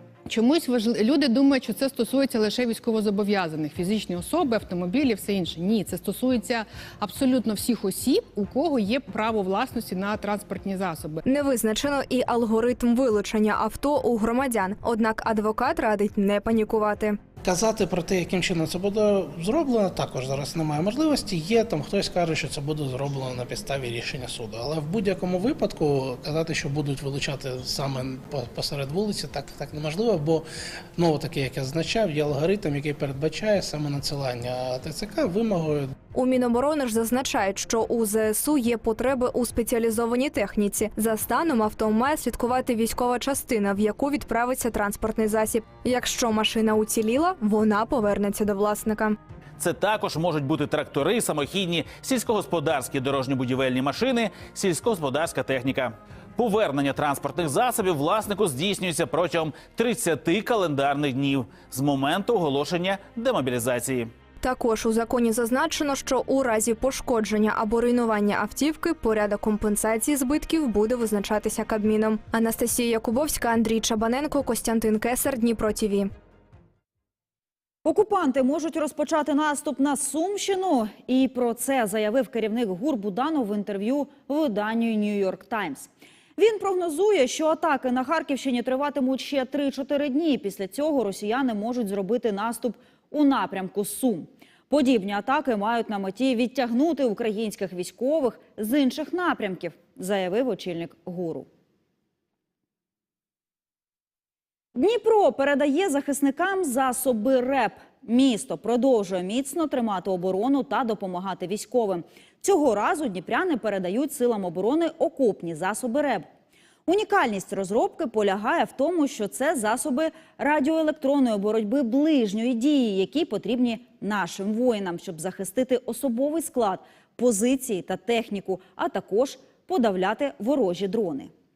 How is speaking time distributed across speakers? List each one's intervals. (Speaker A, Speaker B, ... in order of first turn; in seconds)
Speaker A: 0.3-11.2
Speaker B: 11.2-17.2, 36.1-49.2, 64.4-76.1
Speaker C: 17.4-30.5, 31.0-35.9
Speaker D: 49.6-64.1
Speaker E: 77.8-101.5, 104.8-116.3, 116.9-131.3